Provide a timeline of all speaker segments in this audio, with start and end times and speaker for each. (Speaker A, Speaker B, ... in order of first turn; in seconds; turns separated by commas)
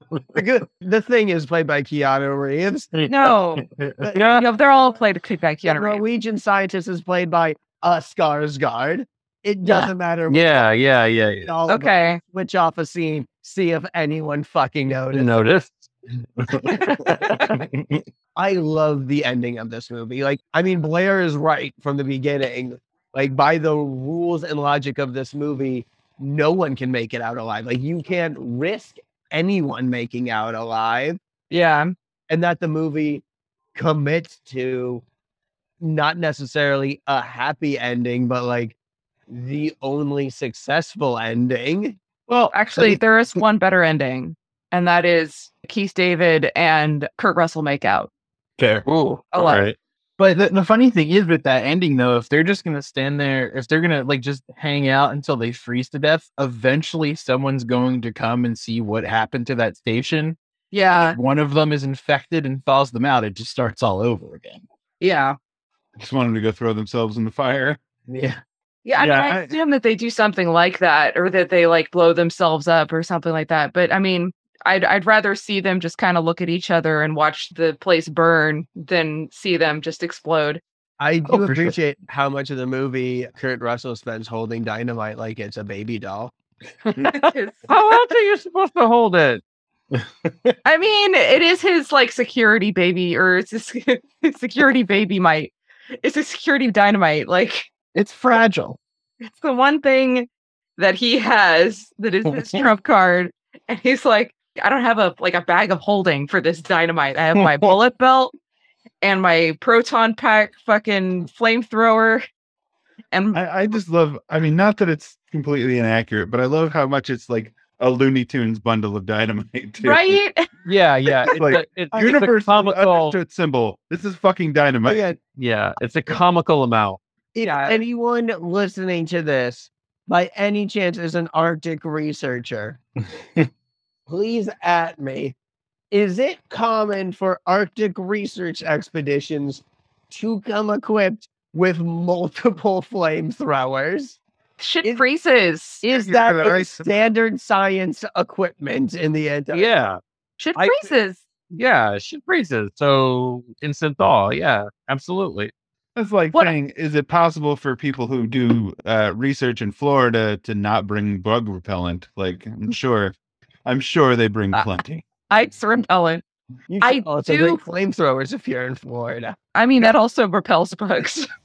Speaker A: 0.3-2.9, Speaker B: 2.9-4.0, Speaker C: 3.1-3.6, Speaker D: 4.1-4.4, Speaker C: 4.3-6.0, Speaker A: 5.7-10.7, Speaker C: 9.6-9.9, Speaker D: 10.3-11.5, Speaker A: 11.4-15.3, Speaker C: 11.7-12.2, Speaker D: 15.1-15.9, Speaker A: 18.4-31.2, Speaker C: 31.5-31.9, Speaker A: 32.3-33.2, Speaker A: 33.7-35.0, Speaker A: 35.8-38.8, Speaker A: 39.3-42.0, Speaker C: 42.5-48.1, Speaker B: 48.6-48.8, Speaker D: 48.9-49.8, Speaker C: 49.3-49.6, Speaker B: 50.2-60.4, Speaker C: 60.7-61.2, Speaker B: 61.1-64.6, Speaker C: 65.0-65.4, Speaker E: 66.0-67.8, Speaker B: 68.1-68.4, Speaker C: 68.8-80.6, Speaker E: 69.0-69.5, Speaker A: 81.0-86.3, Speaker B: 81.3-81.7, Speaker D: 87.0-89.4, Speaker C: 87.1-88.0, Speaker C: 90.6-97.7, Speaker B: 97.9-98.8, Speaker C: 99.2-108.3, Speaker C: 109.0-112.2, Speaker C: 113.1-113.4, Speaker E: 113.3-120.2, Speaker C: 119.8-120.5, Speaker D: 120.7-123.2, Speaker E: 121.2-125.0, Speaker A: 124.8-125.2, Speaker D: 125.3-127.0, Speaker A: 127.3-132.8, Speaker C: 127.4-127.8, Speaker A: 134.1-135.3, Speaker A: 135.9-144.2, Speaker C: 144.6-145.8, Speaker A: 145.8-149.7, Speaker E: 145.9-146.9, Speaker D: 149.5-150.0, Speaker C: 150.4-151.2, Speaker D: 150.6-150.9, Speaker D: 151.5-155.5, Speaker E: 155.9-163.1, Speaker E: 163.6-165.1, Speaker C: 165.3-166.2, Speaker A: 166.7-169.3, Speaker C: 166.8-167.6, Speaker C: 169.5-171.3